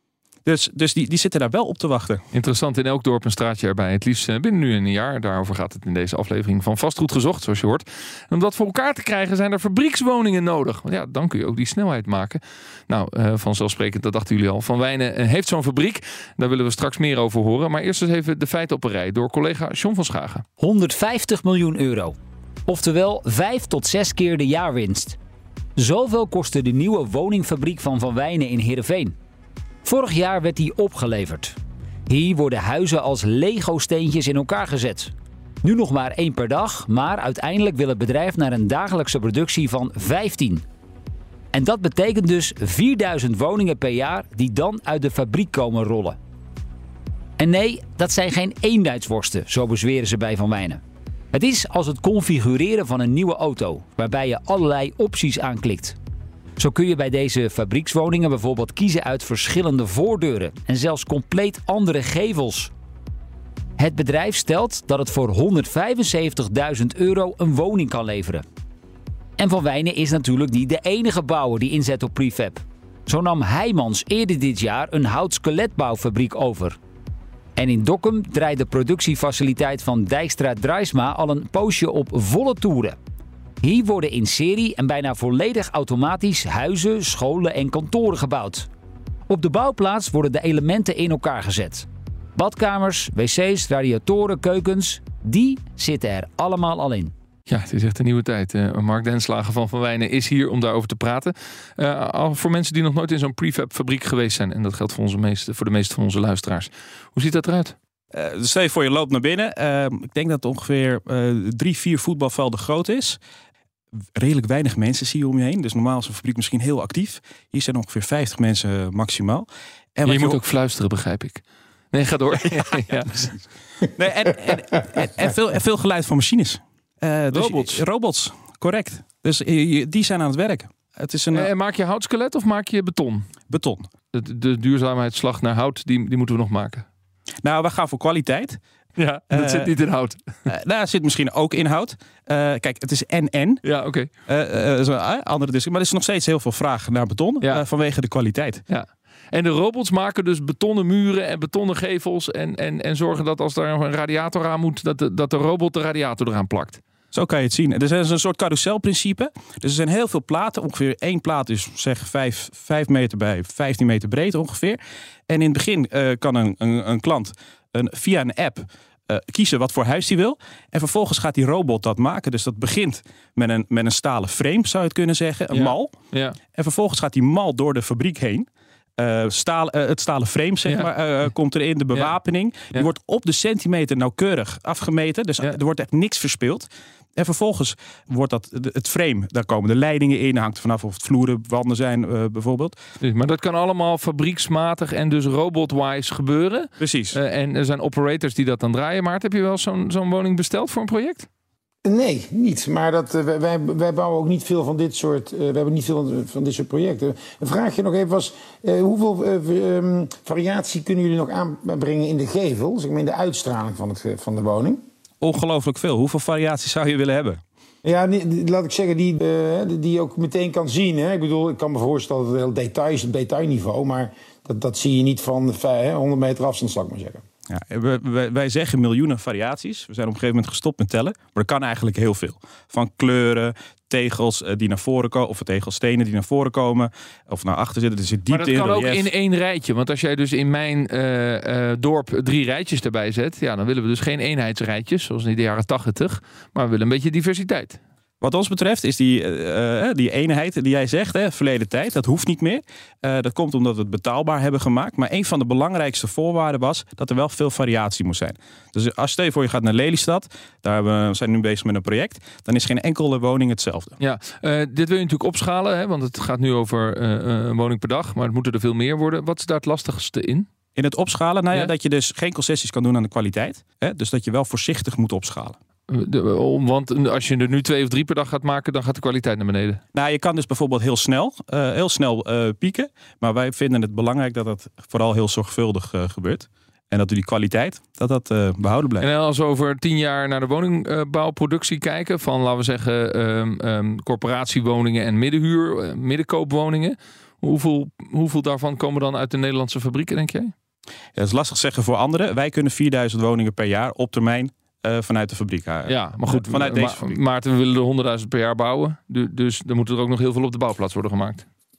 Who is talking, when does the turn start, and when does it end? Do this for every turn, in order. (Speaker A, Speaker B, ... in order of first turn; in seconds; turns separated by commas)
Speaker A: 0.5-2.2, Speaker B: 2.3-20.4, Speaker C: 20.6-22.1, Speaker C: 22.7-25.2, Speaker C: 25.8-29.1, Speaker C: 29.8-31.6, Speaker C: 32.1-40.6, Speaker C: 41.5-46.2, Speaker C: 47.4-50.8, Speaker C: 51.3-56.0, Speaker C: 56.6-62.7, Speaker C: 63.8-68.4, Speaker C: 69.4-76.8, Speaker C: 77.6-83.0, Speaker C: 83.6-88.7, Speaker C: 89.3-97.1, Speaker B: 97.5-107.8, Speaker A: 108.1-113.2, Speaker A: 114.2-120.4, Speaker B: 120.1-123.4, Speaker A: 123.9-131.5, Speaker B: 127.3-127.8, Speaker B: 131.3-133.3, Speaker A: 133.5-133.9, Speaker B: 134.1-136.8, Speaker A: 137.4-138.6, Speaker B: 139.0-140.3, Speaker A: 139.3-139.7, Speaker A: 140.5-143.6, Speaker B: 143.6-144.1, Speaker A: 144.3-148.6, Speaker B: 148.7-156.8, Speaker A: 157.1-175.9, Speaker B: 175.5-176.4, Speaker A: 176.5-178.5, Speaker A: 179.0-192.8, Speaker B: 193.0-201.3, Speaker A: 196.8-197.2, Speaker D: 201.8-214.8, Speaker A: 215.2-217.4, Speaker D: 217.8-227.2, Speaker A: 227.5-239.1, Speaker B: 238.3-247.8, Speaker A: 248.2-264.0, Speaker B: 264.0-270.5, Speaker A: 270.8-275.6, Speaker B: 275.9-279.8, Speaker A: 279.9-289.1, Speaker B: 289.0-300.5, Speaker A: 301.2-307.2, Speaker B: 305.9-311.5